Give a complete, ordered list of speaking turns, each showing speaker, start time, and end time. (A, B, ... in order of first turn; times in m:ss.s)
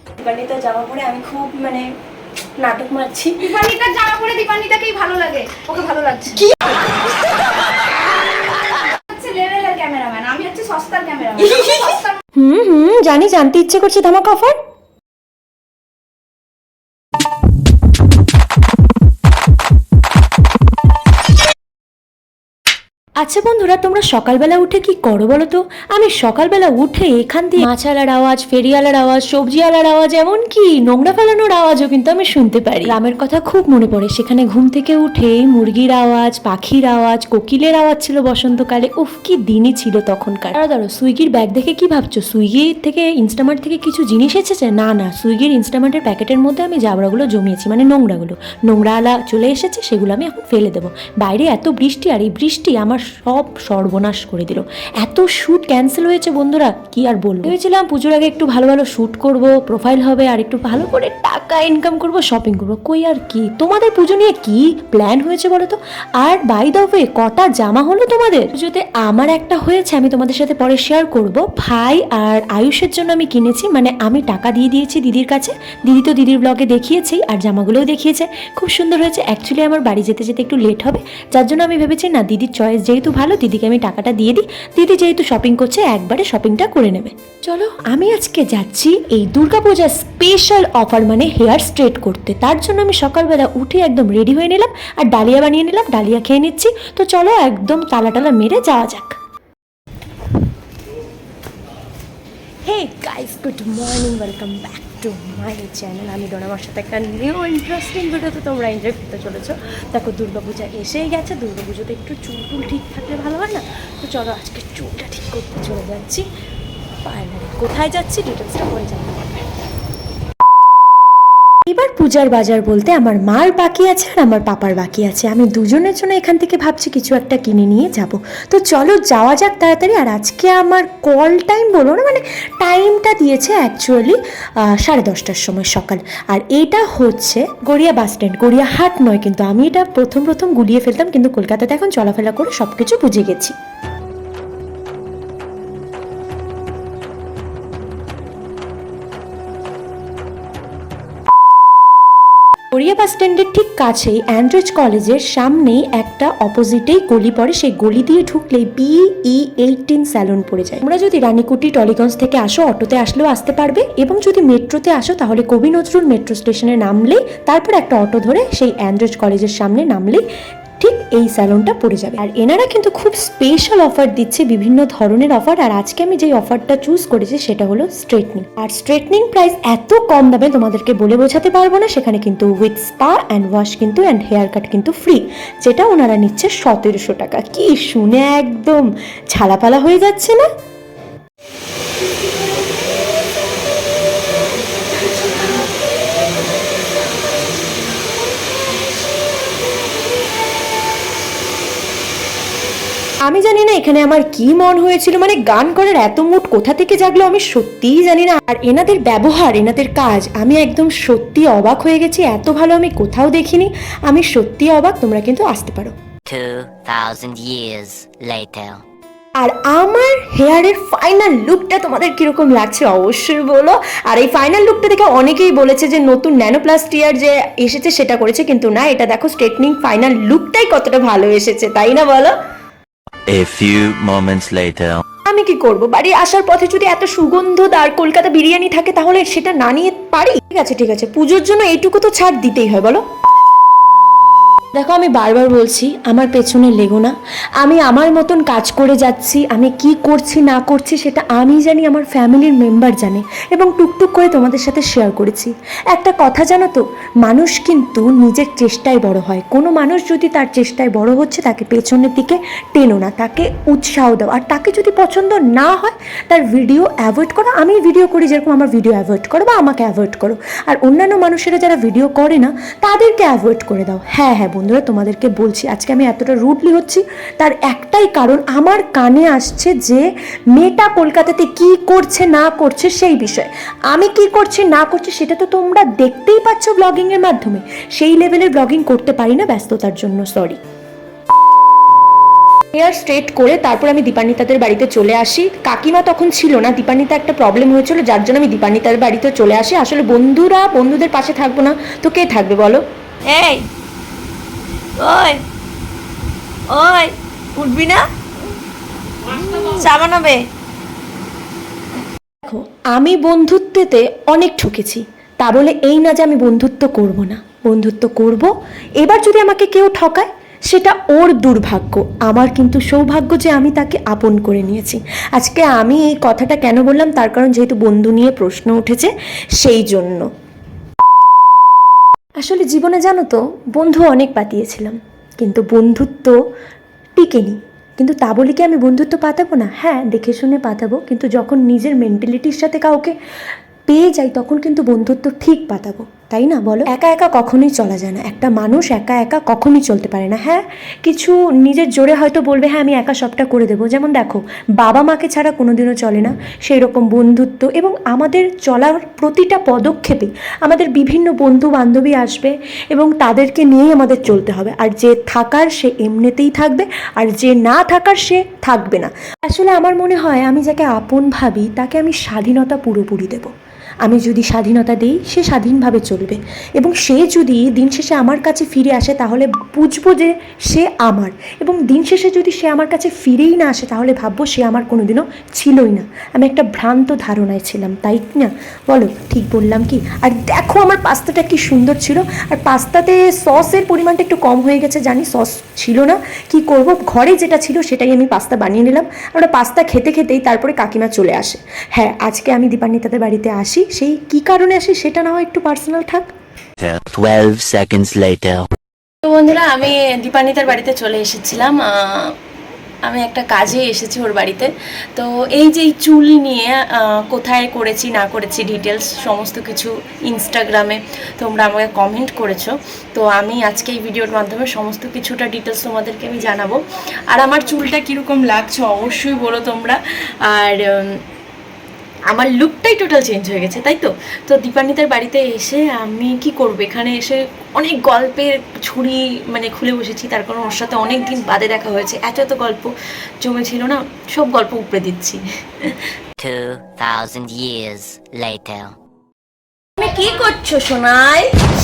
0:00.5-0:01.8 A
0:02.6-0:03.3 A
0:03.5-0:06.4 B
0:09.0-0:12.2 B
0:12.4-0:14.6 C
0:23.2-0:32.1 C
0:32.2-0:32.8 A
0:32.8-1:39.2 C
1:42.6-1:56.2 C
1:57.0-1:59.4 C
2:01.7-2:14.2 C
2:14.8-2:23.5 C
2:32.7-2:50.2 C
2:50.8-3:10.5 C
3:23.3-3:35.9 C
3:36.3-3:38.8 D
3:39.4-3:52.3 C
3:53.3-3:55.0 E
3:55.3-4:03.0 C
4:04.8-4:40.0 C
4:40.6-4:50.6 C
4:52.7-5:02.8 C
5:05.0-5:05.4 A
5:06.8-5:07.1 A
5:07.7-5:08.0 A
5:09.8-5:10.4 A
5:12.5-5:18.5 C
5:19.0-5:30.3 C
5:32.4-5:36.4 C
5:37.2-5:43.1 C
5:43.9-6:13.5 C
6:14.1-6:46.3 C
6:46.8-6:48.7 E
6:49.3-6:51.7 C
6:53.1-6:54.7 C
6:55.6-6:56.5 C
6:56.4-6:56.7 A
6:57.3-7:02.7 A
7:03.2-7:06.8 A
7:07.3-7:10.0 A
7:12.3-7:17.3 A
7:18.0-7:22.8 A
7:23.4-7:24.2 A
7:24.8-7:25.4 A
7:26.4-7:28.9 D
7:30.0-7:30.4 B
7:30.2-7:31.5 A